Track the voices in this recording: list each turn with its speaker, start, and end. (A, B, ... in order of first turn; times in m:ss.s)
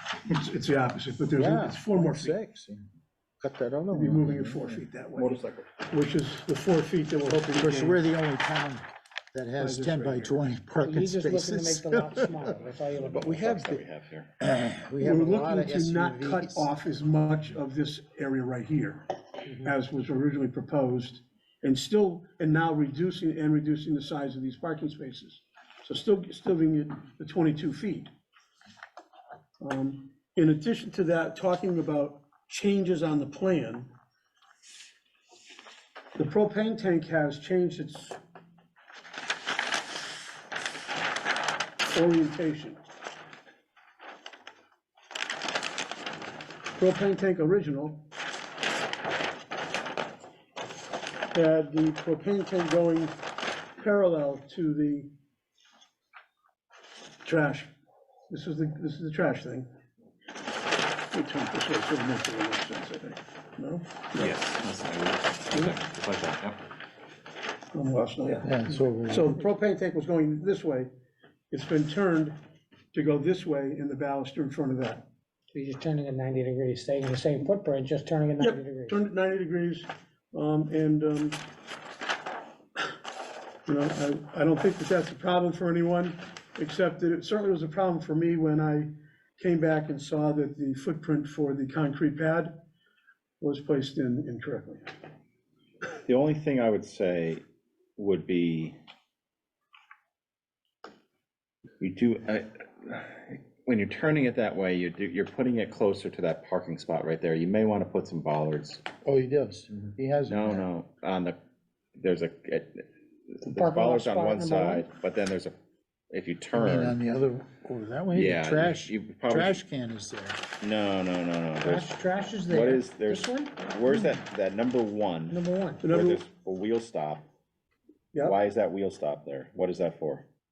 0:00.3-0:02.3 A
0:01.3-0:02.9 B
0:03.4-0:04.8 B
0:03.9-0:08.0 A
0:05.2-0:05.7 C
0:07.3-0:12.5 B
0:09.6-0:10.4 A
0:10.8-0:13.5 D
0:13.1-0:13.8 B
0:13.1-0:14.3 C
0:14.4-0:16.7 B
0:15.0-0:19.0 A
0:19.4-0:19.7 D
0:19.6-0:28.1 A
0:29.6-0:33.9 A
0:36.2-0:38.2 A
0:41.9-0:42.8 A
0:46.8-0:48.0 A
0:51.3-0:53.2 A
0:53.8-0:55.1 A
0:57.2-0:57.7 A
0:58.3-0:59.7 A
1:01.1-1:04.3 A
1:04.1-1:06.6 C
1:07.7-1:10.9 A
1:08.4-1:09.3 B
1:11.5-1:12.4 A
1:12.9-1:15.0 A
1:15.5-1:19.0 D
1:18.4-1:21.4 A
1:23.7-1:32.5 A
1:33.4-1:34.9 A
1:36.0-1:37.4 C
1:38.0-1:38.8 C
1:41.8-1:48.8 C
1:49.0-1:50.6 B
1:50.3-1:51.4 C
1:52.0-1:52.8 C
1:53.4-1:55.5 C
1:53.4-1:54.9 D
1:56.1-1:57.0 C
1:56.5-2:00.4 B
1:58.1-1:59.6 C
2:00.6-2:07.2 C
2:01.6-2:03.5 D
2:05.3-2:05.8 D
2:05.8-2:06.2 A
2:08.2-2:10.2 C